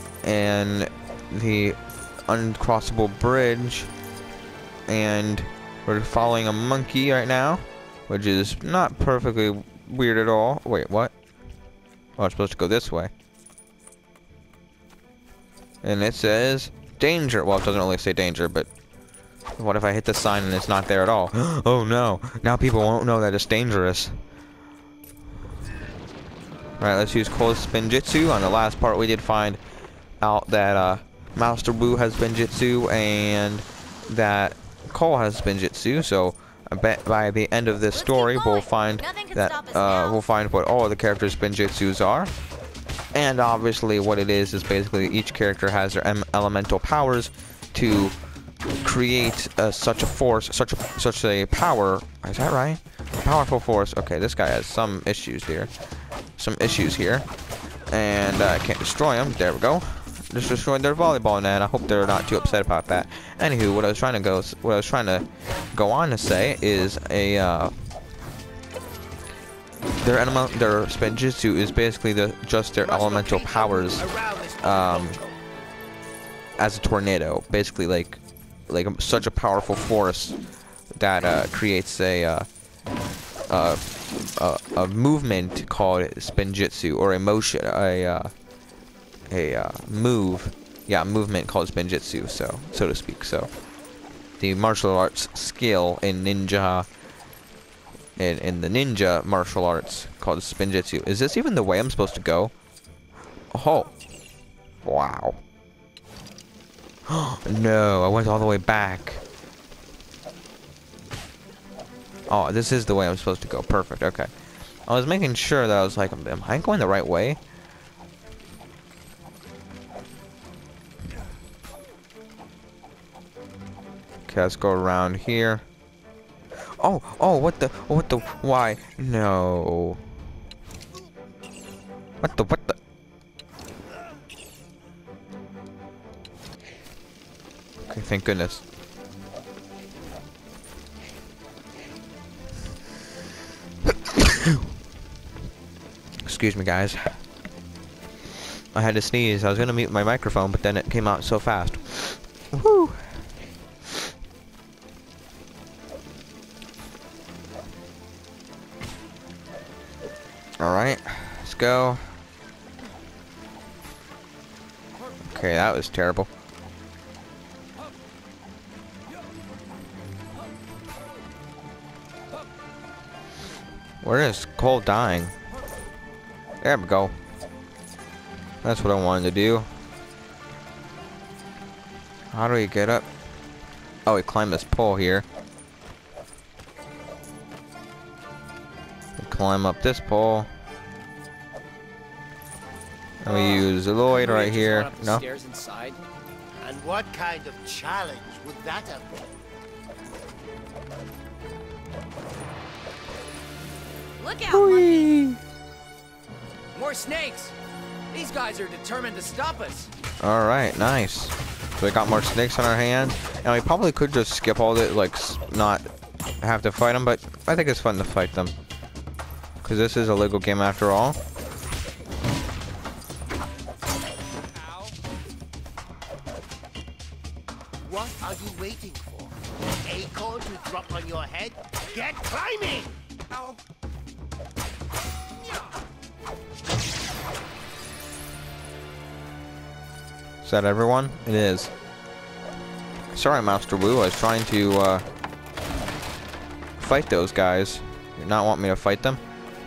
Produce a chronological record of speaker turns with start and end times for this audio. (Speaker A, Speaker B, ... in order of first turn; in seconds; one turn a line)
Speaker A: 0.2-3.9
Speaker A: 4.9-11.1
Speaker A: 12.2-13.1
Speaker A: 15.8-18.7
Speaker A: 19.6-24.1
Speaker A: 26.8-29.6
Speaker A: 30.2-42.3
Speaker B: 37.9-40.2
Speaker A: 43.1-48.2
Speaker A: 48.8-55.7
Speaker A: 56.4-57.3
Speaker A: 57.9-67.7
Speaker A: 70.0-74.1
Speaker C: 72.8-75.4
Speaker A: 74.6-75.2
Speaker A: 76.6-80.4
Speaker A: 80.9-82.5
Speaker A: 83.5-88.3
Speaker A: 89.3-93.5
Speaker A: 94.4-96.9
Speaker A: 98.2-102.5
Speaker A: 103.5-103.9
Speaker A: 104.8-105.4
Speaker A: 107.1-109.2
Speaker A: 112.3-114.3
Speaker A: 114.9-117.4
Speaker A: 124.3-125.7
Speaker A: 126.8-130.0
Speaker A: 132.2-132.8
Speaker A: 137.9-138.6
Speaker A: 144.1-144.5
Speaker A: 146.2-147.1
Speaker A: 148.8-153.0
Speaker A: 160.6-162.0
Speaker A: 165.2-166.3
Speaker A: 174.0-175.3
Speaker A: 176.6-177.1
Speaker A: 178.6-179.7
Speaker A: 182.3-183.1
Speaker A: 184.1-185.3
Speaker A: 189.2-190.5
Speaker A: 193.2-195.2
Speaker D: 193.2-196.0
Speaker C: 196.6-199.3
Speaker B: 204.2-205.1
Speaker A: 204.5-205.4
Speaker D: 206.7-207.5
Speaker D: 208.1-209.9
Speaker A: 210.2-215.9
Speaker A: 216.4-218.5
Speaker A: 219.6-221.2
Speaker C: 227.8-233.0
Speaker A: 240.4-241.7
Speaker A: 243.1-245.1
Speaker A: 246.8-249.2